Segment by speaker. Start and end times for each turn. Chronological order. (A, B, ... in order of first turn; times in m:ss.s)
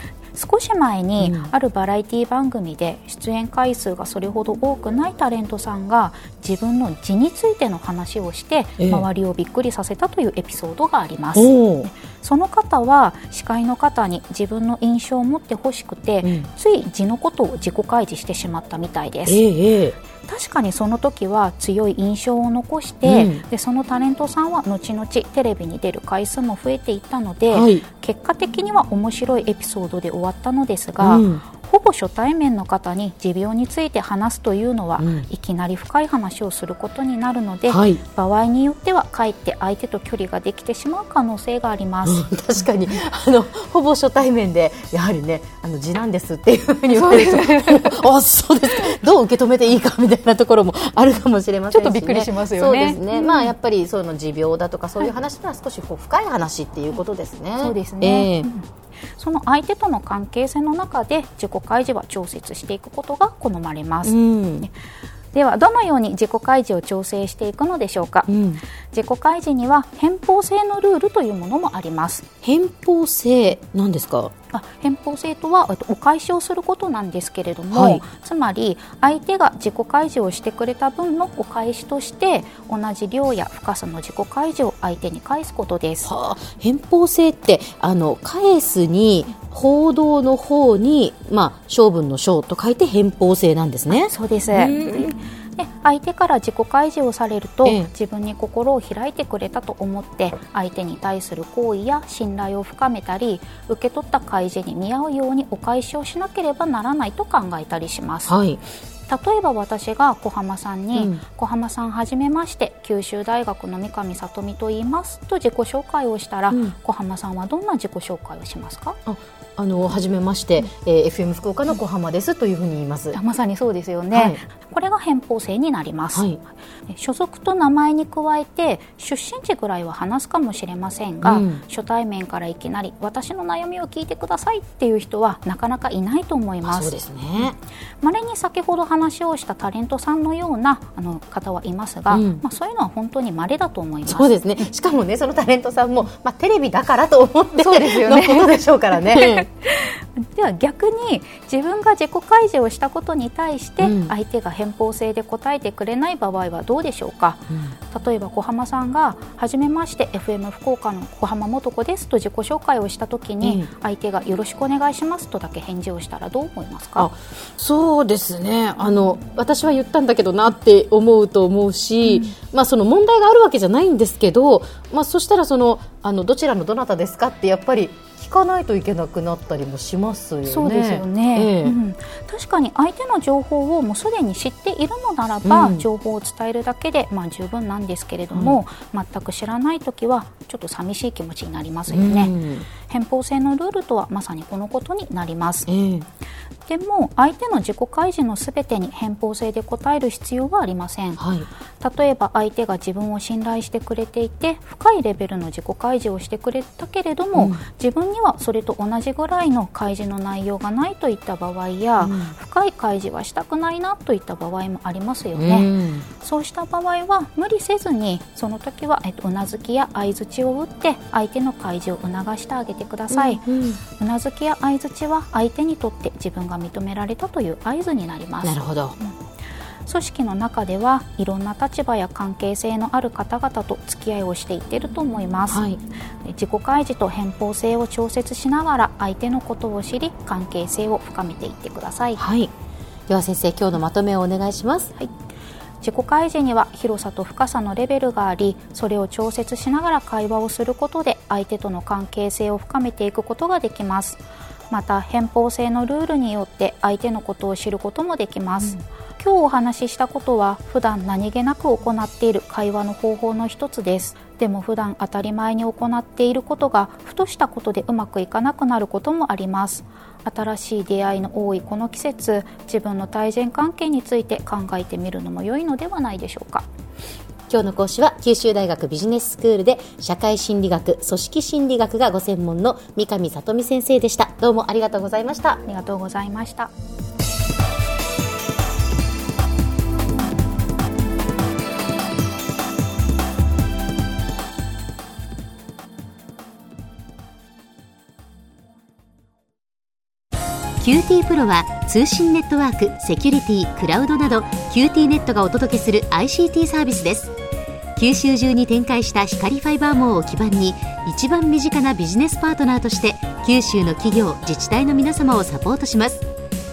0:00.3-0:19.4 A
0:01.2-0:01.5 B
0:08.8-0:09.1 B
0:11.4-0:11.9 B
0:16.2-0:16.5 B
0:19.3-0:20.0 B
0:20.2-0:42.3 A
0:23.0-0:23.4 B
0:27.5-0:27.8 B
0:31.0-0:31.4 B
0:35.0-0:35.3 B
0:37.7-0:38.0 B
0:42.0-0:58.5 B
0:46.9-0:48.0 A
0:51.7-0:53.5 A
0:57.6-1:04.7 A
1:04.0-1:04.7 B
1:05.3-1:08.3 A
1:08.3-1:08.6 B
1:08.9-1:12.2 A
1:12.4-1:14.3 B
1:14.5-1:26.1 A
1:17.7-1:18.0 B
1:26.0-1:35.1 B
1:33.9-1:48.4 A
1:37.6-1:37.9 B
1:48.3-1:48.6 B
1:49.1-1:59.0 A
1:50.9-1:51.2 B
1:56.5-1:56.8 B
1:59.1-2:03.2 B
2:03.1-2:06.3 A
2:04.1-2:04.4 B
2:06.1-2:06.4 B
2:06.9-2:17.0 A
2:11.2-2:11.6 B
2:16.6-2:17.6 B
2:18.0-2:24.3 A
2:22.1-2:22.4 B
2:24.1-2:29.5 B
2:27.6-2:47.1 A
2:33.8-2:34.1 B
2:37.5-2:37.8 B
2:43.4-2:43.7 B
2:47.0-3:01.8 B
2:52.0-2:52.4 A
3:00.4-3:15.7 A
3:05.4-3:05.9 B
3:08.3-3:08.6 B
3:11.9-3:12.7 B
3:15.7-3:16.1 B
3:16.7-3:21.2 A
3:21.2-3:21.5 B
3:21.8-3:49.2 A
3:27.4-3:27.6 B
3:32.0-3:32.4 B
3:35.4-3:36.1 B
3:43.1-3:43.8 B
3:48.4-3:49.0 B
3:49.9-3:55.7 A
3:55.5-3:55.8 B
3:56.2-4:02.2 A
4:02.2-4:02.5 B
4:03.1-4:04.9 B
4:05.8-4:36.7 A
4:37.5-4:45.6 B
4:45.7-4:46.7 A
5:00.8-5:07.3 B
5:08.0-5:16.2 B